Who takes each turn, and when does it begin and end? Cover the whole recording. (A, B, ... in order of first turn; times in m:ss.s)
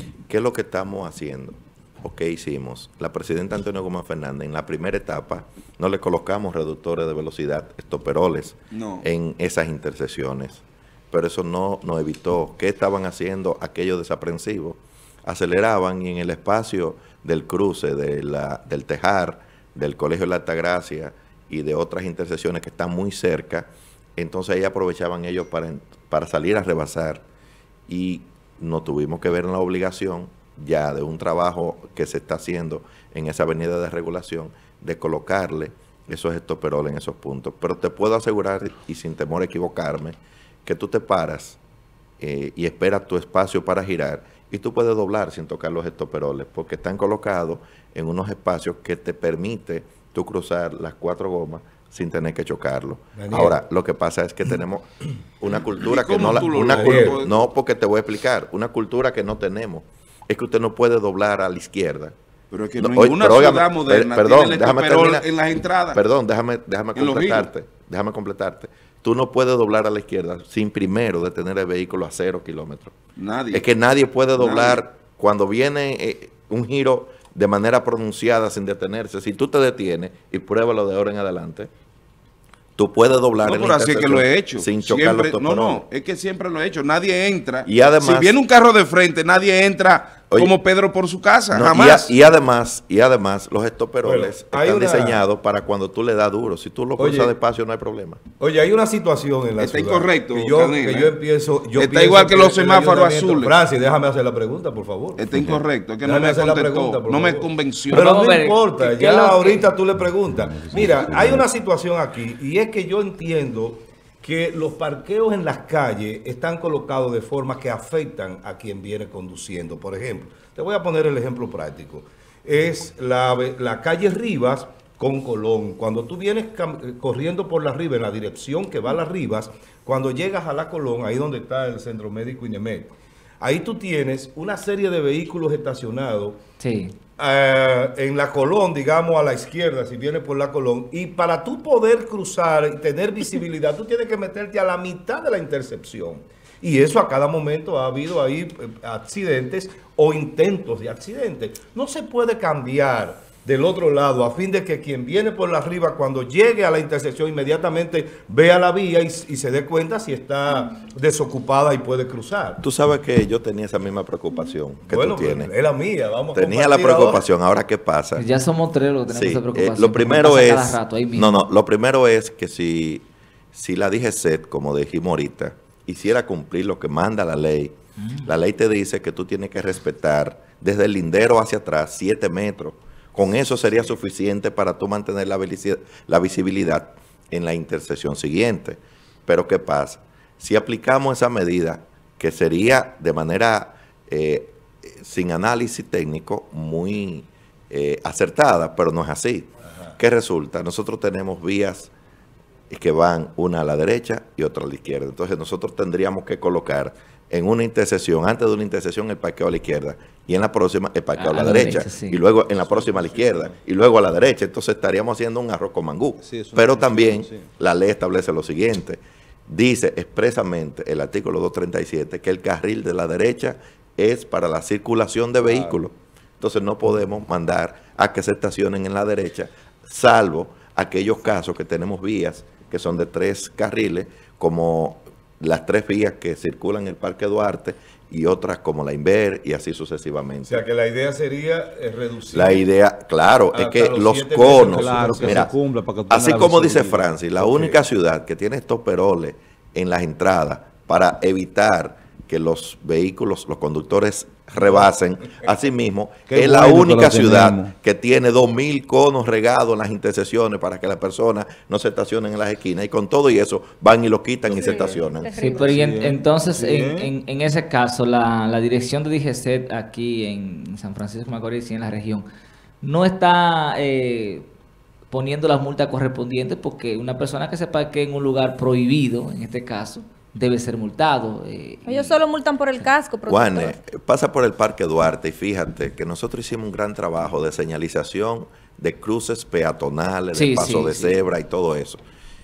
0:00.3-0:27.2 A
0:08.7-0:09.1 B
0:27.9-0:41.6 A
0:42.2-0:54.9 A
0:53.2-0:53.6 C
0:55.4-1:02.2 A
0:55.8-0:57.3 B
0:56.2-0:57.2 C
1:02.5-1:06.0 B
1:02.8-1:05.2 A
1:05.9-1:13.0 A
1:06.9-1:07.5 B
1:13.2-1:13.7 B
1:13.5-1:21.7 A
1:14.4-1:14.8 B
1:22.8-1:25.8 A
1:23.4-1:32.2 B
1:27.6-1:28.4 A
1:31.5-1:38.2 A
1:34.0-1:35.2 C
1:37.0-1:37.3 C
1:38.4-1:45.3 C
1:39.6-1:41.2 B
1:41.7-1:43.6 B
1:45.2-1:48.1 B
1:45.3-1:45.6 D
1:46.0-2:16.4 C
1:47.9-1:49.7 E
1:50.4-1:51.5 D
2:16.6-2:16.9 E
2:17.2-2:42.6 C
2:42.6-2:45.5 A
2:44.9-2:47.2 C
2:46.3-2:48.2 A
2:48.2-2:51.4 E
2:49.1-3:21.9 A
2:58.0-2:58.3 E
3:22.7-4:00.6 A
3:31.2-3:32.2 E
3:32.6-3:33.6 D
3:36.2-3:37.5 D
3:45.4-3:45.8 D
4:00.5-4:02.6 C
4:02.3-4:05.5 A
4:03.5-4:05.5 C
4:04.6-4:07.1 D
4:06.1-4:25.3 A
4:07.4-4:07.8 C
4:16.3-4:17.7 D
4:24.5-4:25.8 F
4:25.4-4:32.2 E
4:25.6-4:27.1 D
4:32.8-4:34.5 E
4:35.1-4:42.2 E
4:41.8-4:43.8 F
4:43.3-4:52.0 A
4:50.3-4:51.2 E